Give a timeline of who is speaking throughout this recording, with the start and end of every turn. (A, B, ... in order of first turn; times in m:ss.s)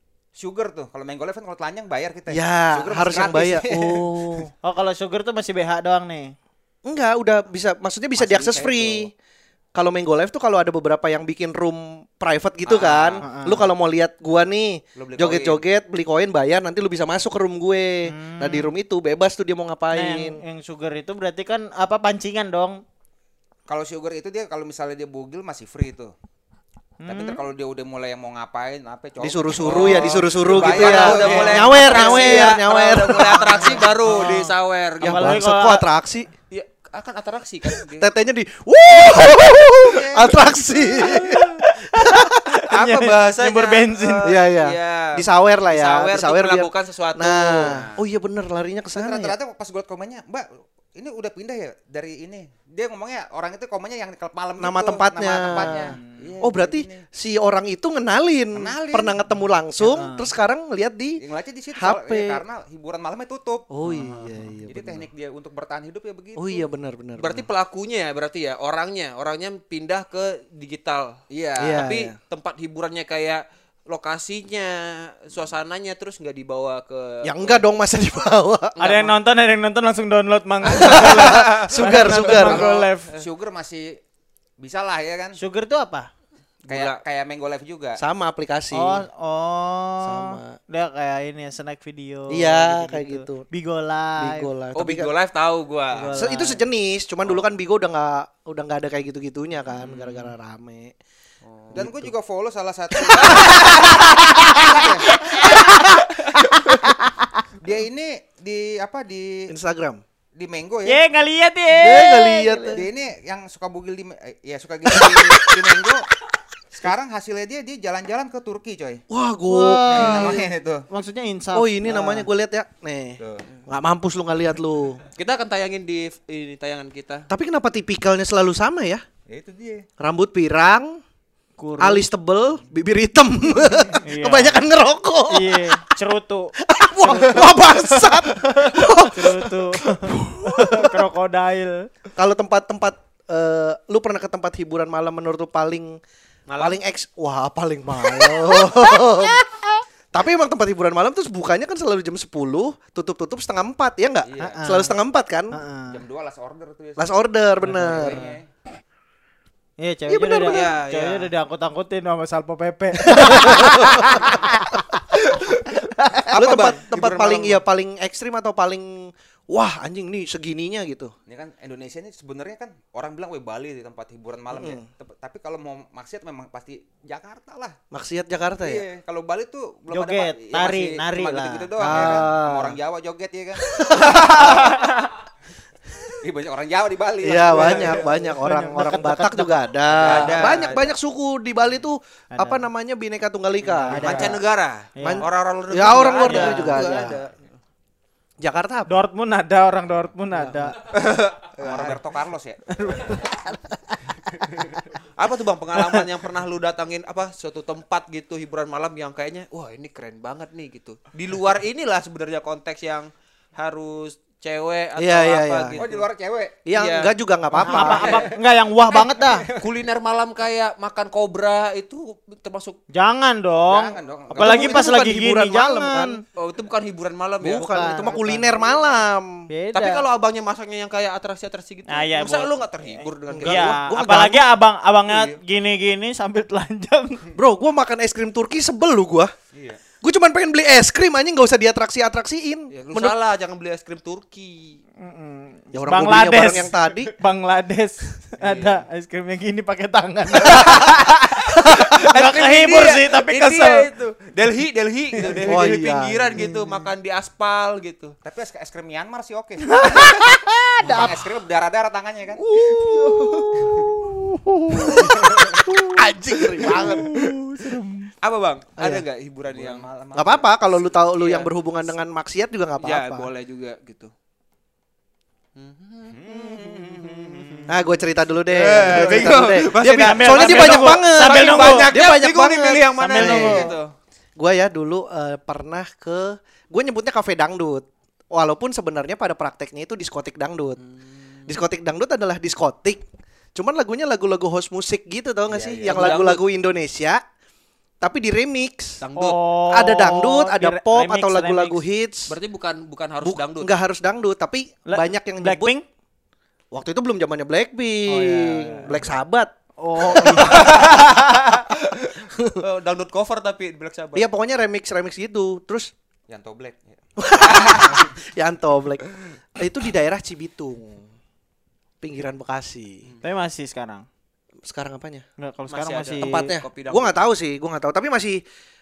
0:00.4-0:03.7 A
0:02.3-0:04.5 B
0:03.1-0:04.1 C
0:04.6-0:06.4 D
0:06.9-0:09.1 B
0:08.2-0:09.1 A
0:09.8-0:20.4 B
0:12.7-0:13.2 A
0:13.2-0:13.6 D
0:15.0-0:15.6 A
0:18.0-0:18.7 D
0:19.9-0:22.8 D
0:23.7-0:26.1 A
0:27.0-0:27.4 D
0:27.1-0:32.3 A
0:29.2-0:33.8 B
0:29.6-0:35.4 C
0:29.8-0:35.8 D
0:35.0-0:36.3 B
0:36.5-0:38.1 C
0:37.9-0:42.4 B
0:39.8-0:40.3 A
0:40.9-0:44.4 D
0:42.7-0:48.0 C
0:44.2-0:49.4 B
0:48.9-0:57.0 A
0:54.6-1:01.2 B
0:55.6-0:56.3 D
0:58.5-0:59.2 A
0:59.8-1:00.3 D
1:01.2-1:03.7 A
1:01.8-1:02.4 B
1:03.7-1:05.1 B
1:03.9-1:04.4 D
1:04.7-1:06.6 A
1:06.4-1:07.5 B
1:07.2-1:17.6 C
1:11.6-1:12.1 B
1:17.2-1:18.8 B
1:18.8-1:19.1 C
1:18.8-1:23.1 D
1:20.6-1:23.2 C
1:20.8-1:22.7 B
1:22.4-1:24.0 A
1:24.6-1:25.4 A
1:25.4-1:26.1 D
1:26.6-1:27.0 C
1:26.7-1:28.0 A
1:28.0-1:29.0 B
1:28.7-1:34.5 D
1:30.0-1:30.6 B
1:32.3-1:33.4 B
1:34.2-1:35.1 B
1:34.7-1:36.1 C
1:35.9-1:36.6 D
1:36.1-1:40.9 B
1:37.2-1:37.5 C
1:39.8-1:40.1 C
1:41.4-1:41.8 C
1:41.7-1:42.1 B
1:41.7-1:45.1 A
1:43.1-1:44.8 B
1:43.2-1:43.8 C
1:43.4-1:46.0 D
1:45.4-1:46.1 B
1:46.6-1:47.2 D
1:47.6-1:49.5 A
1:49.5-1:50.0 B
1:50.4-1:51.0 A
1:50.9-1:52.8 D
1:51.7-1:52.9 B
1:52.7-1:56.1 A
1:54.9-1:55.8 B
1:56.7-1:59.0 A
1:59.1-2:00.5 B
1:59.5-2:02.3 D
1:59.9-2:00.9 A
2:01.5-2:05.0 B
2:03.2-2:03.4 A
2:05.2-2:07.3 C
2:07.3-2:09.0 B
2:09.3-2:09.9 A
2:10.0-2:11.0 B
2:11.6-2:12.1 D
2:11.8-2:15.9 B
2:14.0-2:14.6 D
2:15.3-2:21.9 D
2:16.6-2:21.0 B
2:22.2-2:26.0 B
2:26.5-2:26.8 C
2:26.6-2:29.4 B
2:30.1-2:35.5 B
2:34.2-2:34.8 A
2:34.4-2:34.9 D
2:35.5-2:36.0 D
2:35.9-2:37.1 A
2:37.0-2:38.3 B
2:37.6-2:38.3 D
2:37.7-2:38.5 A
2:39.8-2:45.0 D
2:40.1-2:40.8 B
2:40.5-2:41.3 C
2:43.0-2:44.2 B
2:45.8-2:46.3 D
2:46.3-2:51.1 B
2:46.3-2:46.8 A
2:46.4-2:47.6 C
2:51.3-2:57.8 A
2:54.5-2:54.8 B
2:57.9-2:58.8 B
2:58.6-3:05.0 A
2:59.9-3:02.1 D
3:01.8-3:02.8 B
3:03.7-3:04.8 B
3:06.2-3:08.1 A
3:07.2-3:14.4 B
3:07.6-3:07.9 C
3:08.2-3:09.6 D
3:09.9-3:10.9 A
3:10.0-3:10.8 C
3:12.3-3:12.6 D
3:13.6-3:17.3 C
3:13.9-3:14.4 D
3:15.0-3:15.3 D
3:15.0-3:17.2 B
3:16.2-3:17.2 D
3:18.4-3:18.9 B
3:18.9-3:20.8 D
3:20.9-3:22.0 C
3:21.6-3:22.6 A
3:22.8-3:24.0 D
3:25.2-3:36.1 C
3:35.0-3:35.8 B
3:35.8-3:36.6 A
3:36.7-3:38.3 B
3:36.7-3:38.3 C
3:37.6-3:39.5 D
3:38.0-3:38.2 A
3:39.2-3:42.8 C
3:42.9-3:46.2 D
3:43.7-3:45.0 A
3:44.3-3:46.2 B
3:46.4-3:48.4 C
3:47.4-3:49.5 B
3:47.5-3:48.4 D
3:49.5-3:50.0 D
3:49.7-3:53.8 C
3:51.9-3:57.2 D
3:53.3-3:54.5 B
3:57.4-3:59.3 B
3:59.5-3:59.8 A
4:00.0-4:03.2 B
4:02.7-4:04.8 C
4:05.0-4:13.9 D
4:05.7-4:07.1 B
4:08.4-4:08.7 C
4:10.4-4:18.2 C
4:15.2-4:15.6 D
4:15.4-4:16.4 B
4:18.2-4:19.7 A
4:19.7-4:21.2 D
4:20.8-4:22.4 A
4:22.4-4:27.3 B
4:22.5-4:25.7 D
4:26.4-4:28.1 D
4:26.6-4:27.1 C
4:28.2-4:29.9 C
4:28.8-4:29.0 B
4:29.5-4:30.9 A
4:30.2-4:33.3 B
4:31.2-4:31.5 C
4:32.8-4:34.1 C
4:35.6-4:37.8 C
4:36.1-4:36.9 A
4:37.2-4:37.6 D
4:37.7-4:43.7 B
4:38.5-4:43.9 C
4:38.8-4:39.4 D
4:39.9-4:41.9 D
4:43.0-4:43.8 D
4:44.4-4:50.8 B
4:50.8-4:51.6 C
4:51.5-4:53.0 B
4:53.6-4:57.2 B
4:55.5-4:56.2 A
4:55.8-4:56.4 C
4:58.0-4:59.0 B
4:59.0-4:59.4 C
4:59.2-5:01.8 D
4:59.7-5:02.3 B
5:02.3-5:03.7 C
5:03.2-5:05.7 B
5:04.9-5:05.8 D
5:06.7-5:09.5 B
5:08.1-5:09.0 D
5:09.8-5:11.6 D
5:10.1-5:10.9 B
5:10.3-5:14.3 C
5:12.3-5:12.6 B
5:14.1-5:15.9 B
5:16.3-5:18.0 A
5:17.2-5:21.1 B
5:22.0-5:23.1 B
5:23.2-5:24.1 D
5:24.6-5:25.2 B
5:25.4-5:26.5 D
5:25.7-5:27.2 C
5:26.2-5:28.4 B